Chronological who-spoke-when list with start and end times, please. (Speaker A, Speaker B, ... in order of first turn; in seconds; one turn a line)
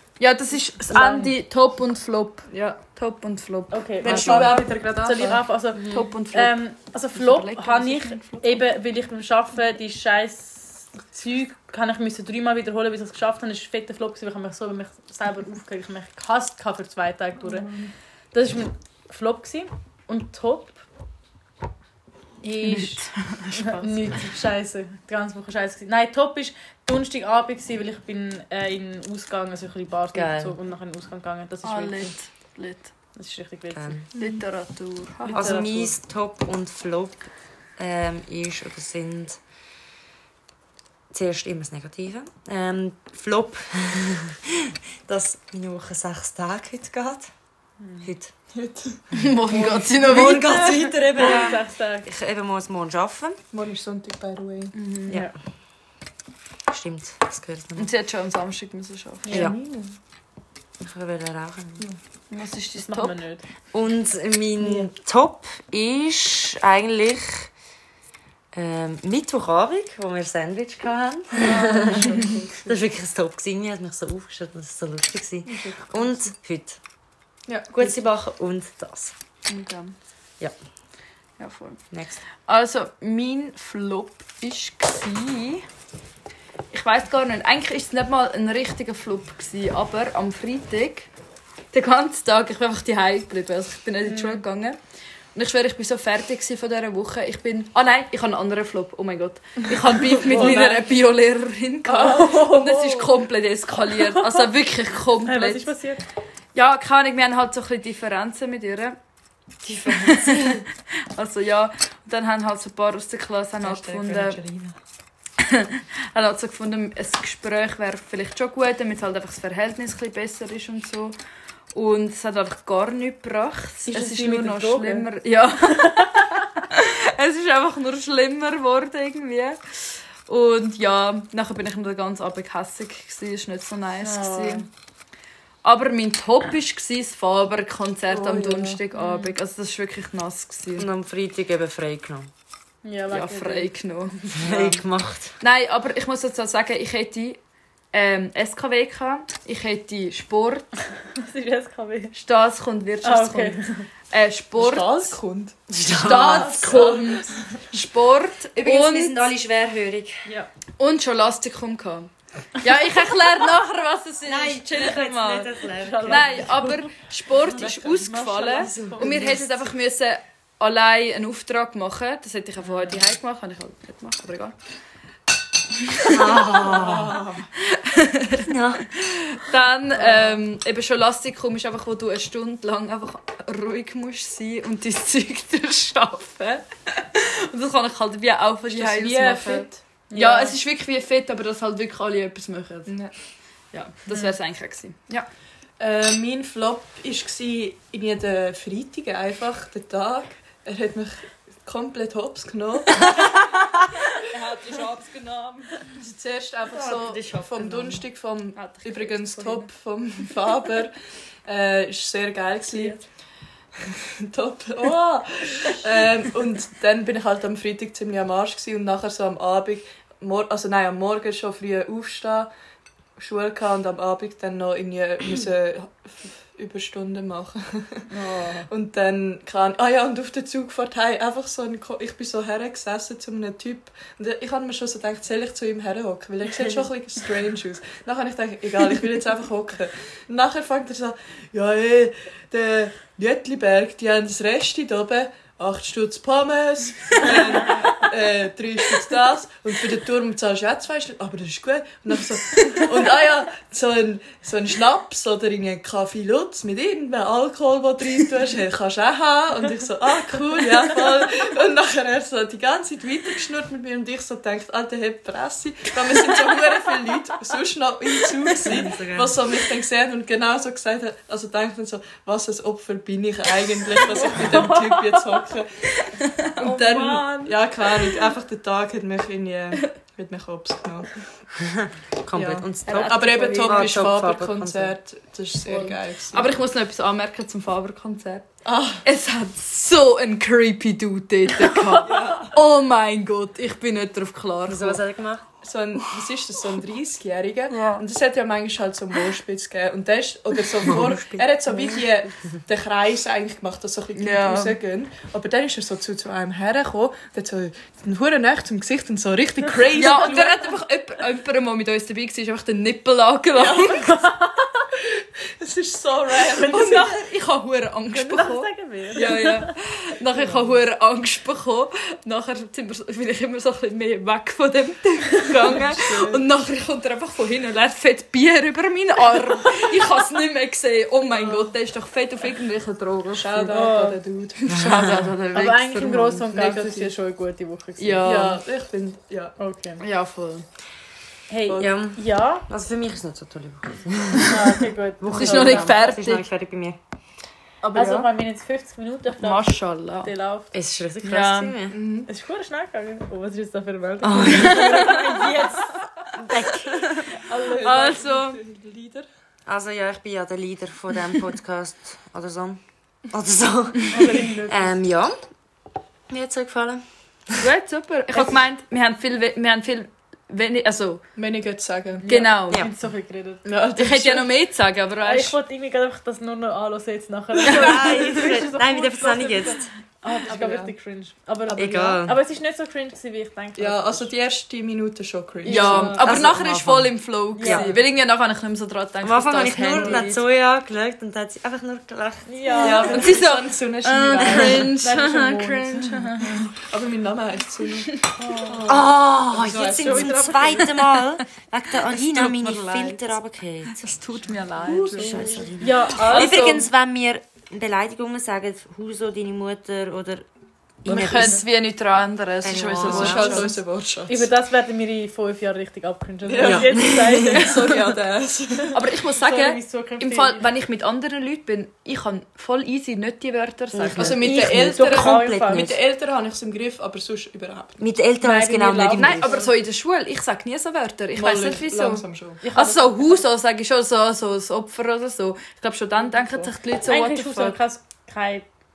Speaker A: 0.2-4.6
Speaker B: 0.8-1.3
Speaker C: 2.5-2.8
Speaker B: 3.7-17.7
Speaker C: 4.0-5.4
Speaker D: 4.1-4.6
Speaker A: 5.7-6.6
Speaker A: 7.1-8.6
Speaker C: 17.4-17.9
Speaker B: 18.3-20.9
Speaker B: 22.4-32.1
Speaker A: 22.6-23.9
Speaker D: 30.1-30.6
Speaker A: 31.6-32.9
Speaker B: 33.1-34.0
Speaker D: 33.7-34.1
Speaker C: 34.1-34.4
Speaker A: 34.2-35.6
Speaker B: 35.2-35.9
Speaker D: 35.3-39.4
Speaker D: 41.1-47.3
Speaker B: 47.8-48.1
Speaker D: 48.0-48.3
Speaker C: 48.5-50.6
Speaker A: 49.1-51.5
Speaker D: 50.0-53.4
Speaker B: 51.1-52.1
Speaker C: 53.5-54.7
Speaker A: 54.8-55.2
Speaker D: 56.7-57.9
Speaker A: 57.8-59.4
Speaker C: 59.3-60.0
Speaker D: 59.3-59.5
Speaker D: 60.8-61.9
Speaker A: 62.3-63.2
Speaker B: 62.8-63.4
Speaker D: 63.7-67.5
Speaker D: 68.5-76.8
Speaker C: 71.3-72.8
Speaker C: 75.5-76.3
Speaker C: 77.5-77.9
Speaker D: 77.7-79.2
Speaker A: 79.5-80.0
Speaker A: 81.4-81.8
Speaker D: 81.9-82.2
Speaker A: 82.5-85.7
Speaker A: 86.7-91.1
Speaker A: 91.7-94.8
Speaker B: 94.0-94.4
Speaker A: 95.3-105.7
Speaker C: 100.0-100.8
Speaker B: 100.2-100.8
Speaker C: 101.9-102.3
Speaker B: 101.9-103.1
Speaker B: 103.9-104.5
Speaker B: 105.2-106.1
Speaker A: 106.5-109.0
Speaker D: 109.6-110.7
Speaker A: 109.8-114.4
Speaker D: 113.6-114.8
Speaker A: 115.4-121.2
Speaker A: 121.7-134.7
Speaker B: 123.9-125.1
Speaker B: 125.7-126.5
Speaker B: 134.0-134.7
Speaker A: 135.6-140.9
Speaker C: 138.1-138.8
Speaker B: 138.9-139.3
Speaker D: 140.8-142.3
Speaker B: 142.8-143.7
Speaker A: 143.1-144.7
Speaker D: 144.3-145.3
Speaker A: 145.4-147.4
Speaker A: 147.9-150.7
Speaker B: 151.2-152.2
Speaker A: 152.1-155.2
Speaker B: 153.0-153.9
Speaker C: 154.6-157.6
Speaker D: 155.7-156.8
Speaker A: 155.9-159.2
Speaker D: 158.6-160.3
Speaker A: 160.8-165.5
Speaker D: 164.3-166.6
Speaker B: 165.8-166.9
Speaker A: 166.0-174.6
Speaker B: 167.6-169.5
Speaker D: 168.6-169.2
Speaker C: 169.0-169.4
Speaker A: 175.8-176.7
Speaker D: 176.1-177.2
Speaker C: 176.3-177.5
Speaker A: 177.6-192.9
Speaker D: 178.4-178.9
Speaker B: 180.0-180.4
Speaker C: 188.7-189.8
Speaker B: 190.1-190.6
Speaker C: 192.9-193.1
Speaker A: 193.7-195.3
Speaker C: 195.8-203.3
Speaker D: 203.0-203.7
Speaker A: 204.1-205.9
Speaker C: 205.9-210.9
Speaker D: 206.8-208.0
Speaker A: 208.6-209.7
Speaker C: 211.5-213.0
Speaker C: 213.8-222.5
Speaker C: 223.2-228.1
Speaker B: 228.1-228.7
Speaker C: 228.7-281.1
Speaker D: 268.6-269.4
Speaker B: 274.1-275.2
Speaker A: 276.2-277.2
Speaker B: 276.6-277.6
Speaker D: 281.6-285.0
Speaker C: 282.3-286.5
Speaker A: 282.9-284.0
Speaker A: 285.7-288.5
Speaker C: 288.6-289.0
Speaker A: 289.0-295.0
Speaker B: 291.7-292.0
Speaker C: 292.0-292.6
Speaker D: 294.7-295.4
Speaker C: 295.6-310.7
Speaker A: 297.7-298.0
Speaker D: 300.9-301.4
Speaker A: 304.2-304.8
Speaker A: 309.9-314.1
Speaker C: 313.5-314.2
Speaker B: 313.7-314.9
Speaker C: 314.9-317.1
Speaker B: 316.4-317.2
Speaker A: 316.6-333.9
Speaker B: 318.1-319.8
Speaker C: 319.1-319.7
Speaker B: 320.4-320.7
Speaker C: 325.6-326.4
Speaker C: 331.3-331.7
Speaker C: 333.3-335.1
Speaker B: 333.7-334.2
Speaker A: 334.7-336.5
Speaker D: 334.7-335.2
Speaker B: 335.5-338.3
Speaker C: 336.5-337.1
Speaker A: 338.0-338.6
Speaker C: 338.2-339.6
Speaker B: 339.6-340.0
Speaker A: 340.0-340.6
Speaker B: 341.5-342.7
Speaker C: 341.7-341.9
Speaker D: 341.8-347.0
Speaker B: 344.5-346.0
Speaker A: 345.3-346.5
Speaker C: 347.8-348.3
Speaker B: 347.9-350.7
Speaker A: 349.4-350.3
Speaker D: 350.7-352.0
Speaker A: 351.2-351.8
Speaker C: 351.9-352.3
Speaker B: 352.3-355.9
Speaker D: 354.2-355.1
Speaker A: 354.5-355.6
Speaker D: 356.4-357.3
Speaker A: 357.1-358.6
Speaker C: 357.3-359.3
Speaker D: 359.7-365.4
Speaker B: 364.1-364.9
Speaker D: 366.3-367.7
Speaker A: 367.6-371.2
Speaker C: 371.4-372.3
Speaker B: 372.2-373.6
Speaker A: 372.3-372.9
Speaker C: 373.6-374.4
Speaker A: 374.0-375.6
Speaker B: 375.2-384.3
Speaker D: 377.6-379.9
Speaker C: 377.8-378.6
Speaker C: 380.5-380.9
Speaker C: 381.7-382.2
Speaker D: 381.8-382.4
Speaker C: 383.8-386.5
Speaker B: 385.6-386.4
Speaker A: 385.7-390.4
Speaker D: 386.2-387.9
Speaker B: 387.6-388.0
Speaker D: 389.2-393.2
Speaker B: 392.5-393.4
Speaker C: 392.8-394.9
Speaker A: 392.8-396.7
Speaker D: 394.4-394.9
Speaker B: 394.5-396.7
Speaker C: 396.8-400.6
Speaker B: 398.4-398.9
Speaker D: 398.9-404.0
Speaker B: 399.8-400.9
Speaker A: 400.9-401.4
Speaker A: 402.1-403.3
Speaker A: 403.9-406.9
Speaker C: 404.8-405.8
Speaker D: 405.1-410.5
Speaker B: 405.8-406.8
Speaker D: 411.1-411.6
Speaker C: 411.1-411.6
Speaker A: 411.1-413.7
Speaker D: 412.6-413.7
Speaker C: 413.0-414.5
Speaker B: 414.3-418.0
Speaker C: 416.5-418.9
Speaker D: 416.6-417.7
Speaker B: 418.7-420.7
Speaker A: 418.9-424.4
Speaker D: 423.9-426.0
Speaker C: 424.2-428.0
Speaker B: 424.6-425.9
Speaker D: 428.0-429.6
Speaker B: 428.4-429.7
Speaker A: 429.1-437.8
Speaker C: 431.4-432.6
Speaker B: 432.6-433.4
Speaker C: 436.2-436.7
Speaker B: 437.1-438.7